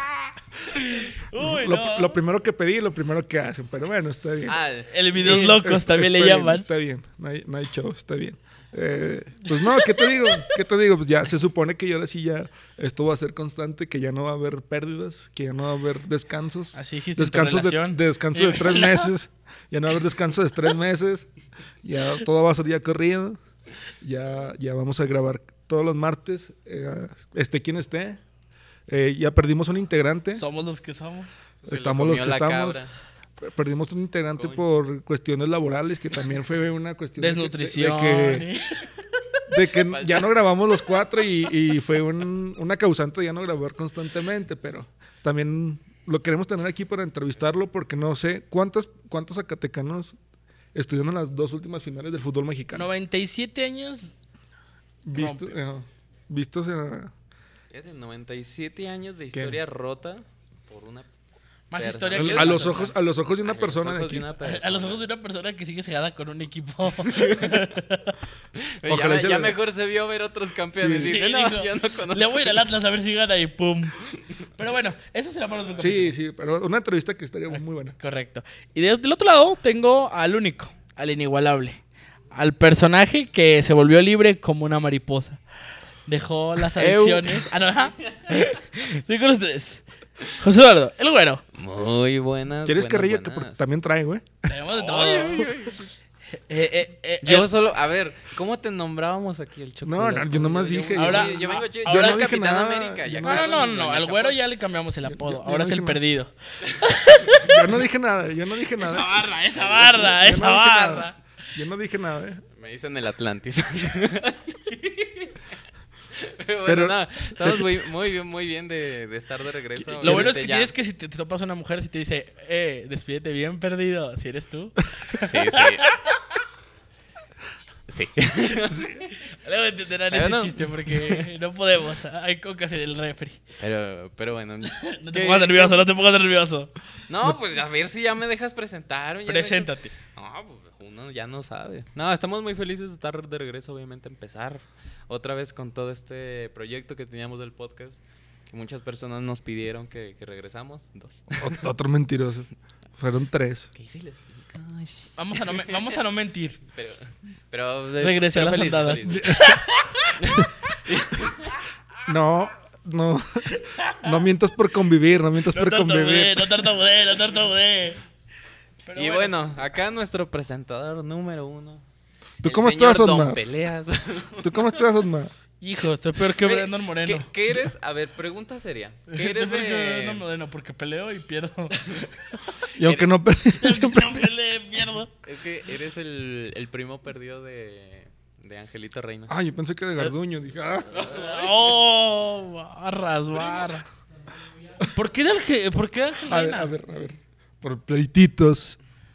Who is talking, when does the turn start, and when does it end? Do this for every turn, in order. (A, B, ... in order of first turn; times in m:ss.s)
0:00.6-0:02.2 A
0:01.3-0:04.6 B
0:04.4-0:05.5 C
0:04.9-0:06.7 A
0:05.1-0:21.3 B
0:09.4-0:10.5 A
0:16.7-0:19.1 A
0:21.8-0:23.4 B
0:24.0-0:28.2 B
0:28.9-0:30.4 B
0:30.3-0:31.4 A
0:31.6-0:32.9 C
0:31.6-0:38.5 B
0:37.2-0:39.7 A
0:39.5-0:50.1 B
0:39.9-0:40.3 C
0:50.7-0:52.9 B
0:52.7-0:54.1 A
0:55.0-0:57.1 B
0:55.1-0:55.6 A
0:57.7-1:01.1 C
0:59.3-0:59.6 B
1:01.7-1:02.9 A
1:01.8-1:02.9 C
1:02.1-1:04.3 B
1:03.4-1:05.0 C
1:04.4-1:08.2 A
1:07.0-1:07.6 C
1:08.6-1:12.6 C
1:08.9-1:09.6 B
1:10.7-1:11.2 B
1:10.8-1:16.1 A
1:15.8-1:17.9 B
1:17.5-1:25.4 A
1:26.0-1:31.4 A
1:26.7-1:27.6 C
1:31.5-1:33.6 C
1:32.6-1:34.5 B
1:34.4-1:35.5 A
1:34.7-1:35.9 C
1:36.3-1:37.5 A
1:37.2-1:44.4 C
1:39.8-1:43.6 B
1:40.9-1:42.3 A
1:43.2-1:47.7 A
1:45.0-1:46.0 B
1:47.3-1:52.4 B
1:48.8-1:51.2 A
1:52.6-1:55.5 C
1:56.1-2:00.7 C
1:56.6-1:57.7 B
2:00.0-2:06.2 A
2:00.0-2:00.3 B
2:05.1-2:05.9 C
2:07.9-2:09.1 C
2:08.7-2:09.0 B
2:09.3-2:13.4 A
2:10.1-2:11.3 C
2:13.6-2:15.8 C
2:14.6-2:16.7 A
2:17.1-2:31.6 C
2:19.2-2:19.9 A
2:31.4-2:33.7 B
2:33.7-2:35.9 C
2:35.2-2:36.6 A
2:36.7-2:39.5 C
2:38.0-2:40.4 A
2:39.0-2:39.6 B
2:40.2-2:41.6 C
2:42.0-2:43.5 B
2:43.5-2:44.2 A
2:44.0-2:46.6 B
2:45.5-2:48.0 A
2:48.8-2:49.3 A
2:48.9-2:51.8 C
2:52.4-2:53.4 B
2:52.4-2:54.8 C
2:54.4-2:55.3 B
2:55.6-2:57.3 A
2:56.2-3:00.3 C
2:59.1-3:02.3 A
3:02.7-3:04.3 B
3:02.8-3:03.1 C
3:03.5-3:05.1 A
3:05.2-3:09.3 C
3:09.3-3:11.1 B
3:10.9-3:13.9 A
3:11.0-3:11.6 C
3:14.9-3:16.7 A
3:16.2-3:18.8 B